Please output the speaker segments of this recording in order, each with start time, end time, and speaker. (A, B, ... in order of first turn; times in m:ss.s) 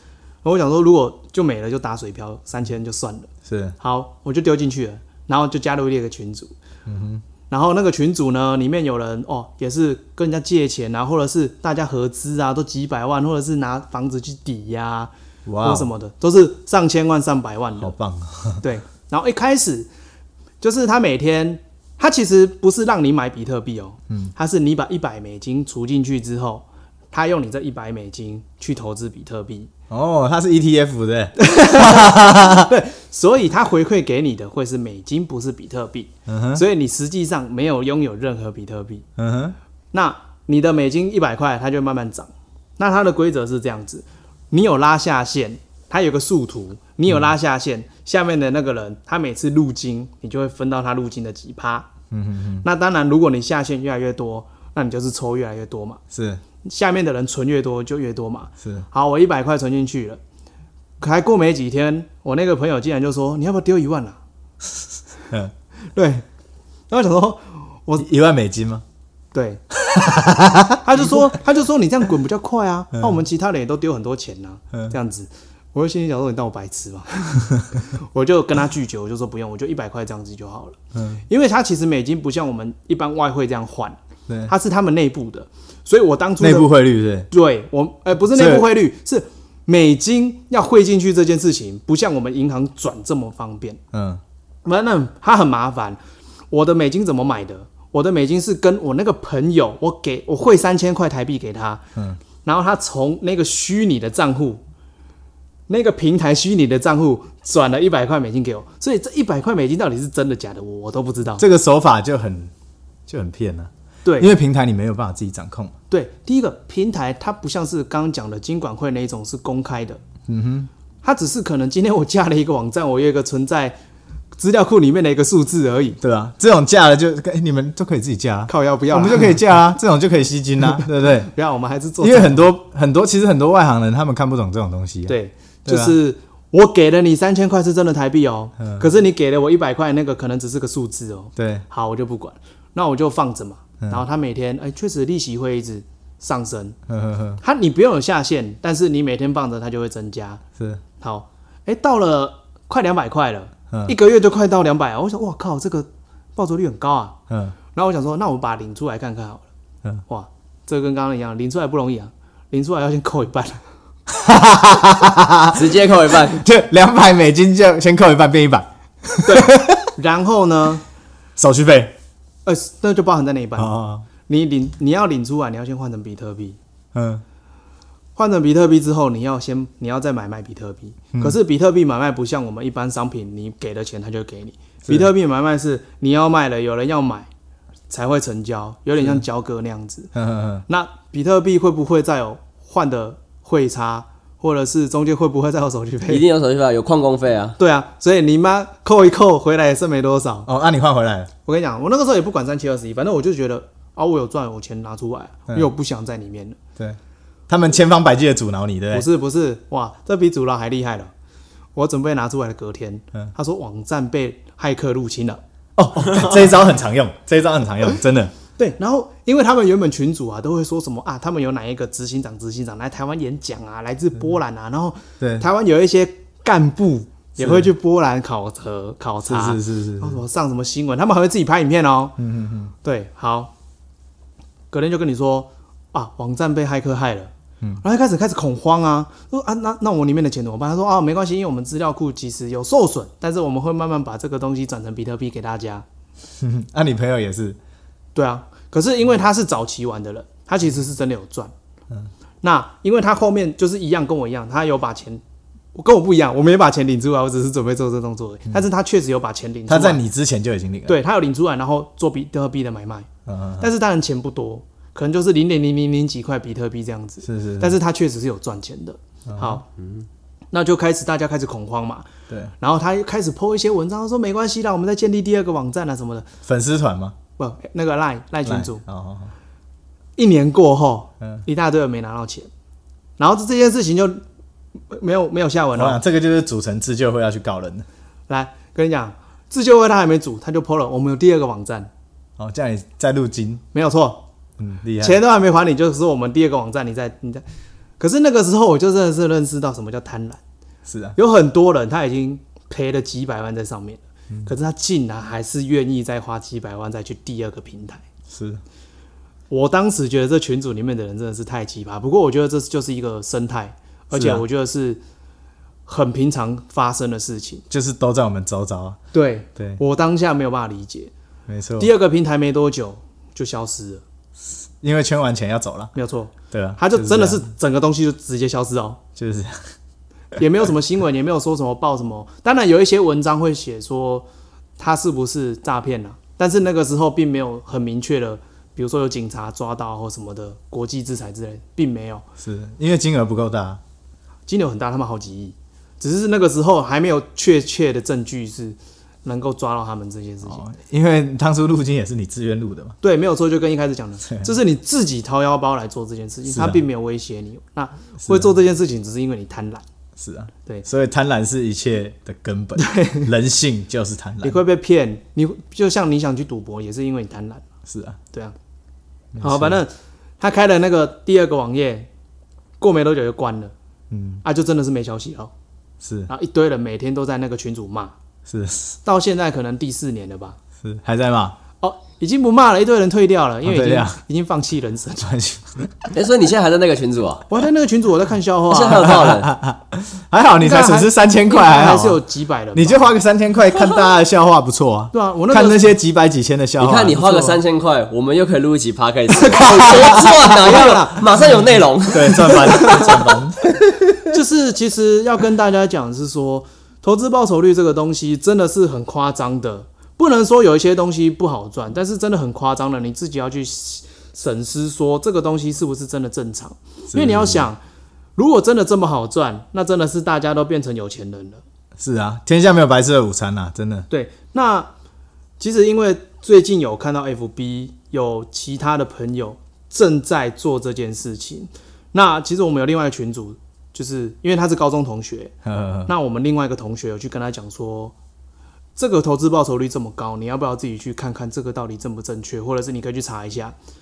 0:00.4-0:06.5 A
0:03.4-0:03.8 B
0:06.8-0:07.2 B
0:07.5-0:17.9 A
0:15.4-0:15.9 B
0:17.8-0:18.6 B
0:18.6-0:19.9 A
0:20.6-0:29.7 A
0:29.9-0:32.7 B
0:31.4-0:39.0 A
0:36.3-0:36.6 B
0:39.2-0:39.6 B
0:39.9-0:51.9 A
0:52.1-0:52.6 B
0:52.6-0:56.0 A
0:56.1-0:56.4 B
0:56.6-1:00.2 A
1:01.0-1:04.2 A
1:05.9-1:06.2 A
1:06.9-1:08.1 A
1:08.0-1:08.8 B
1:09.3-1:09.6 A
1:09.7-1:11.1 B
1:10.8-1:20.8 A
1:12.9-1:13.2 B
1:20.9-1:21.2 B
1:21.3-1:26.7 A
1:24.3-1:24.5 B
1:26.4-1:27.3 B
1:27.3-1:33.8 A
1:28.3-1:28.7 B
1:33.9-1:34.2 B
1:34.6-1:36.0 A
1:36.5-1:41.8 A
1:42.4-1:44.6 A
1:45.7-1:51.4 A
1:51.4-1:52.5 B
1:53.1-1:55.8 B
1:54.0-1:54.3 A
1:55.9-2:00.0 A
2:00.3-2:00.7 B
2:01.0-2:03.8 A
2:04.3-2:06.0 A
2:06.0-2:11.3 B
2:08.5-2:09.4 A
2:11.2-2:12.5 A
2:12.0-2:16.0 B
2:15.1-2:26.8 A
2:18.6-2:18.9 B
2:21.4-2:21.6 B
2:26.9-2:27.4 B
2:27.4-2:30.4 A
2:31.0-2:37.2 A
2:37.3-2:37.6 B
2:37.7-2:39.4 A
2:40.1-2:43.6 A
2:44.1-2:49.9 B
2:45.5-2:46.4 C
2:49.2-2:50.8 A
2:51.4-2:52.0 B
2:52.4-2:56.6 A
2:53.6-2:54.0 B
2:56.9-2:57.2 B
2:58.2-3:07.3 A
3:07.9-3:10.1 A
3:10.1-3:10.6 B
3:10.7-3:16.2 A
3:16.1-3:17.6 C
3:17.6-3:20.5 A
3:20.5-3:21.3 B
3:21.4-3:26.6 A
3:26.8-3:29.0 B
3:28.9-3:31.1 A
3:31.7-3:35.4 A
3:35.8-3:38.3 B
3:38.6-3:52.2 A
3:45.2-3:45.4 B
3:47.4-3:47.7 B
3:49.2-3:50.2 B
3:52.2-3:52.7 B
3:52.8-3:53.5 A
3:54.7-4:05.8 A
4:06.4-4:07.6 B
4:08.1-4:11.5 A
4:12.4-4:15.2 A
4:15.7-4:20.0 A
4:19.7-4:21.0 B
4:20.9-4:23.1 A
4:23.3-4:23.7 B
4:23.6-4:29.6 A
4:27.2-4:27.8 B
4:29.3-4:29.6 B
4:30.5-4:32.1 A
4:32.6-4:36.3 A
4:36.4-4:37.2 B
4:37.4-4:38.8 A
4:38.4-4:39.3 B
4:40.2-4:42.5 A
4:43.2-4:44.2 A
4:44.9-4:46.0 A
4:45.7-4:47.9 B
4:48.3-4:51.9 A
4:52.4-4:53.6 B
4:53.7-4:54.2 A
4:54.6-4:55.2 B
4:55.0-4:57.4 A
4:58.0-5:00.4 A
5:00.9-5:01.2 B
5:01.2-5:08.0 A
5:08.3-5:08.6 B
5:09.5-5:15.0 A
5:14.1-5:14.4 B
5:15.8-5:17.6 A
5:17.7-5:19.0 B
5:19.1-5:21.1 A
5:19.6-5:19.8 B
5:21.5-5:21.9 B
5:21.8-5:24.0 A
5:24.8-5:25.9 B
5:25.9-5:29.0 A
5:26.5-5:27.5 B
5:29.2-5:29.7 B
5:30.4-5:34.2 A
5:34.8-5:42.2 A
5:42.4-5:43.8 B
5:44.5-5:50.6 A
5:50.4-5:53.0 B
5:53.0-5:59.8 A
5:56.5-5:56.8 B
5:58.2-5:58.5 B
6:00.2-6:04.6 B
6:02.8-6:03.3 A
6:04.4-6:07.6 A
6:07.8-6:08.2 B
6:09.3-6:09.8 B
6:09.4-6:12.1 A
6:12.8-6:13.7 A
6:14.1-6:14.4 B
6:14.4-6:15.5 A
6:16.0-6:16.3 B
6:16.3-6:18.1 A
6:18.5-6:19.0 B
6:19.0-6:20.6 A
6:20.8-6:21.6 B
6:21.8-6:25.3 A
6:23.6-6:24.2 B
6:25.2-6:26.1 B
6:26.1-6:27.4 C
6:27.5-6:29.2 A
6:28.7-6:29.5 C
6:29.0-6:32.2 B
6:30.6-6:33.1 A
6:32.7-6:37.2 B
6:35.1-6:35.9 A
6:36.8-6:43.1 C
6:37.2-6:37.6 A
6:39.4-6:41.7 A
6:39.5-6:40.9 B
6:42.1-6:44.3 B
6:42.3-6:43.2 A
6:44.3-6:57.8 A
6:57.1-6:57.7 B
6:58.4-7:01.6 A
7:02.0-7:04.1 B
7:04.1-7:04.9 A
7:05.6-7:15.5 A
7:15.6-7:16.1 B
7:16.1-7:18.1 A
7:19.0-7:23.7 A